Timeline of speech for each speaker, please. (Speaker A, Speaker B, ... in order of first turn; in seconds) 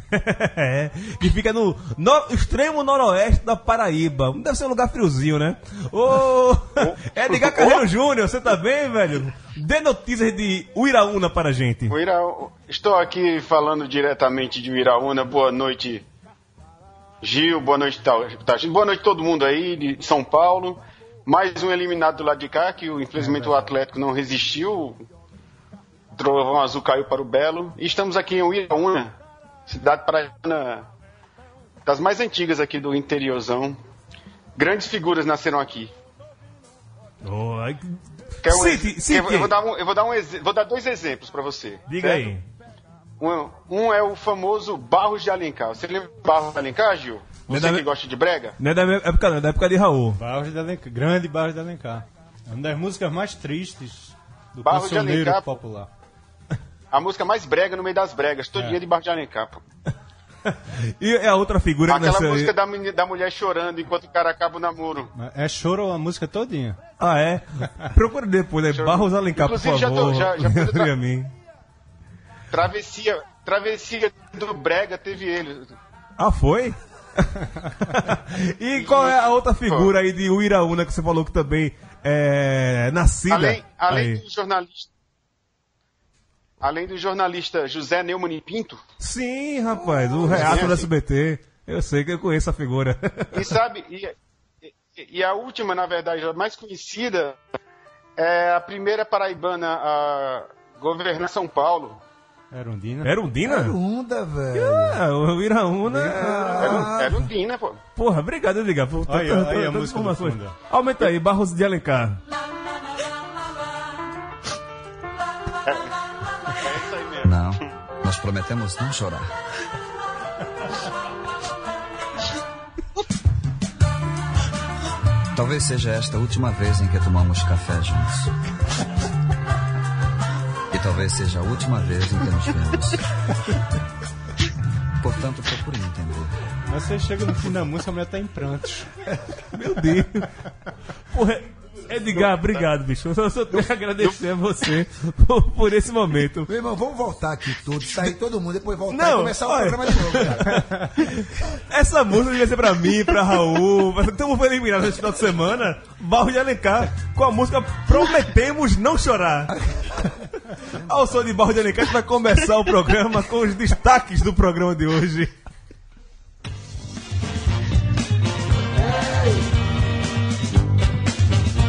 Speaker A: 0.1-12.0, 37.2-39.5, 41.9-42.4, 47.5-47.9, 48.6-50.2, 60.5-62.5, 67.0-71.3, 76.2-84.2, 89.0-93.5, 103.0-103.8, 104.5-106.9, 108.0-112.2, 139.4-140.3, 141.1-146.5, 148.9-159.6, 160.5-165.3
Speaker B: 6.8-7.8, 11.9-16.0, 17.2-25.0, 26.1-29.1, 29.7-30.9, 31.8-33.8, 34.5-35.9, 38.4-42.3, 43.2-48.6, 54.6-55.5, 56.9-59.6, 61.9-65.1, 68.7-70.9, 72.5-75.7, 78.8-79.9, 83.3-84.9, 86.6-88.8, 90.3-90.9, 93.3-94.1, 94.7-97.4, 98.2-102.0, 106.6-107.8, 116.5-117.5
Speaker C: 50.2-55.9, 65.1-66.8, 102.5-103.1, 109.1-110.5, 136.7-138.9
Speaker D: 103.4-105.0, 105.8-107.3, 146.4-150.8, 168.8-169.4
Speaker E: 117.2-119.3, 125.3-128.3, 130.7-133.0, 135.0-136.3